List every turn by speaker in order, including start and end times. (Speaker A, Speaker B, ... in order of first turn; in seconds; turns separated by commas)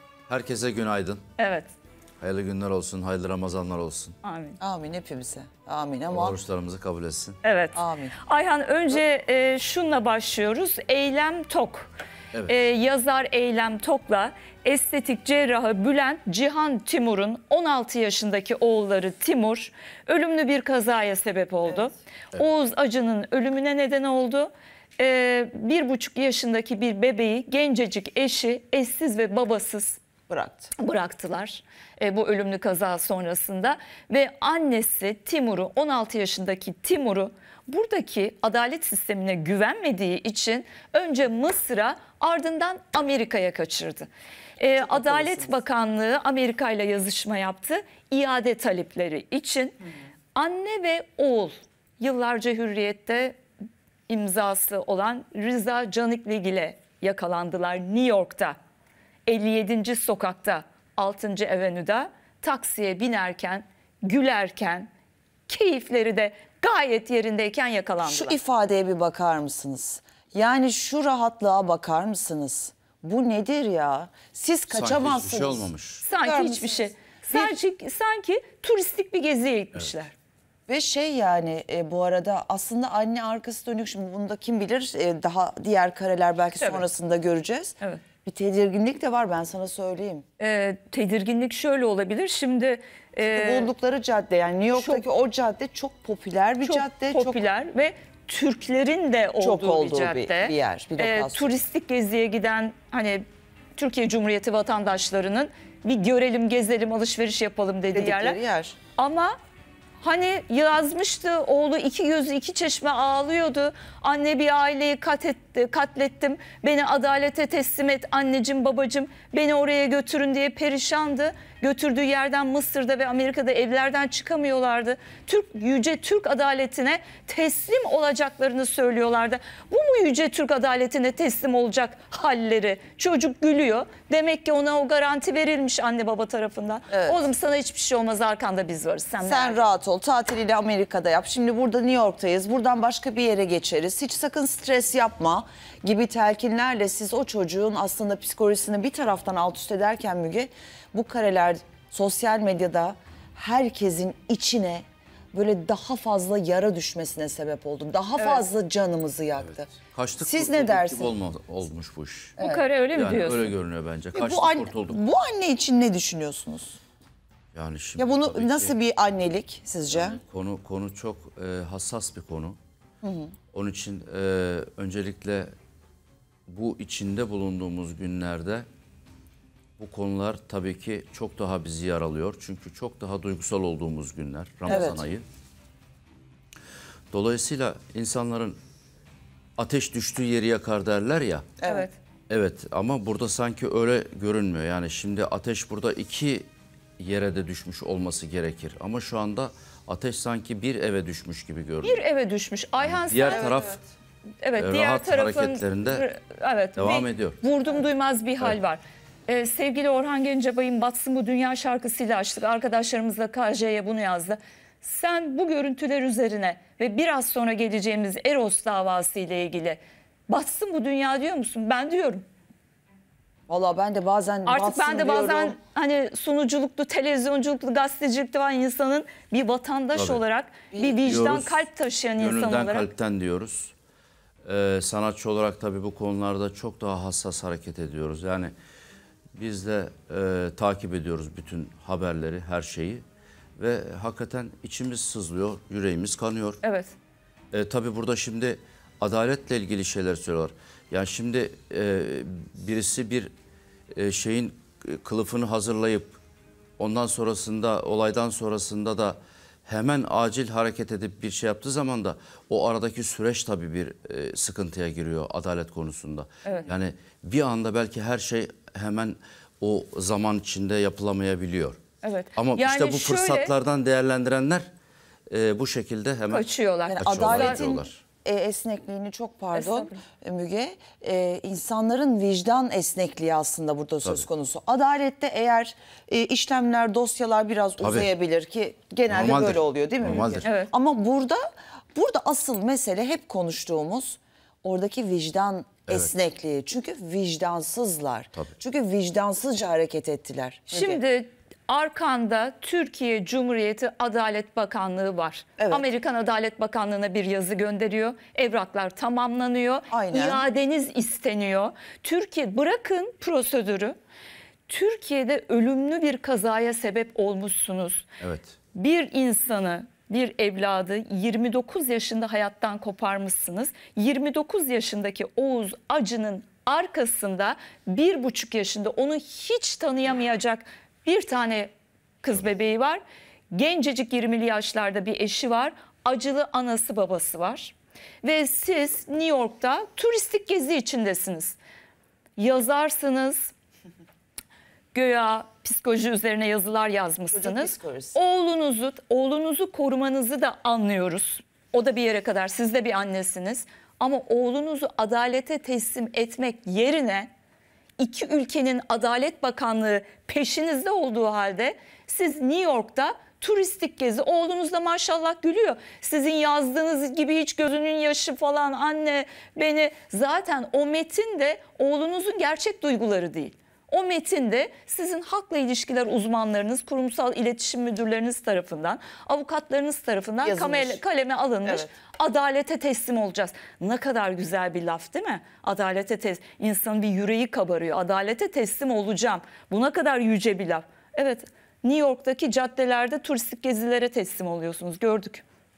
Speaker A: 0.3-1.2, Speaker B: 1.4-1.7, Speaker A: 2.2-4.2, Speaker B: 4.2-4.6, Speaker C: 4.6-6.4, Speaker A: 6.1-7.4, Speaker B: 7.4-11.9, Speaker C: 7.8-8.2, Speaker B: 12.5-30.0, Speaker C: 30.3-30.7, Speaker B: 30.8-49.8, Speaker C: 44.8-45.5, Speaker B: 50.4-53.4, Speaker B: 54.1-58.6, Speaker B: 59.3-64.9, Speaker B: 65.5-68.4, Speaker C: 68.0-75.7, Speaker A: 74.7-76.0, Speaker B: 76.0-80.1, Speaker C: 76.2-77.5, Speaker C: 80.7-90.2, Speaker B: 86.6-86.8, Speaker B: 90.4-93.7, Speaker C: 93.3-97.4, Speaker B: 94.7-95.0, Speaker B: 96.6-103.2, Speaker C: 99.4-101.6, Speaker B: 103.8-108.4, Speaker C: 107.9-108.8, Speaker B: 109.0-109.4, Speaker B: 110.0-139.7, Speaker C: 136.9-137.2, Speaker C: 139.2-161.1, Speaker A: 159.9-162.4, Speaker C: 162.4-162.7, Speaker B: 162.4-163.5, Speaker A: 162.9-165.0, Speaker C: 164.1-166.8, Speaker A: 167.5-168.7, Speaker C: 168.0-170.2, Speaker A: 169.9-172.6, Speaker C: 173.0-173.3, Speaker A: 173.5-175.5, Speaker A: 176.5-178.7, Speaker A: 179.8-185.2, Speaker C: 184.7-185.0, Speaker A: 187.1-188.6, Speaker A: 189.6-191.5, Speaker C: 191.6-191.9, Speaker B: 191.6-191.9, Speaker A: 192.3-196.5, Speaker A: 197.0-202.0, Speaker B: 201.8-203.5, Speaker A: 202.8-203.8, Speaker C: 203.3-203.8, Speaker B: 204.4-222.2, Speaker A: 204.6-206.1, Speaker A: 206.8-207.4, Speaker C: 223.5-225.6, Speaker B: 224.5-232.9, Speaker A: 229.9-230.2, Speaker C: 230.7-231.0, Speaker A: 231.0-231.6, Speaker A: 232.2-233.7, Speaker A: 234.4-238.5, Speaker A: 239.3-243.0, Speaker A: 243.6-246.6, Speaker B: 246.6-246.9, Speaker A: 247.5-253.3, Speaker A: 253.9-256.2, Speaker A: 256.8-271.8, Speaker B: 272.0-273.5, Speaker A: 272.4-274.7, Speaker A: 275.3-278.0, Speaker B: 276.3-277.6, Speaker C: 276.9-301.0, Speaker B: 279.5-280.0, Speaker A: 287.8-288.1, Speaker A: 289.1-290.5, Speaker B: 290.4-290.7, Speaker B: 300.7-314.0, Speaker C: 305.6-305.8, Speaker C: 309.9-310.4, Speaker B: 314.7-318.1, Speaker A: 318.2-318.5, Speaker B: 318.8-331.7, Speaker B: 332.2-341.6, Speaker B: 342.4-343.5, Speaker B: 344.9-357.3, Speaker C: 347.3-348.2, Speaker B: 358.0-395.4, Speaker C: 380.4-381.0, Speaker C: 381.6-381.9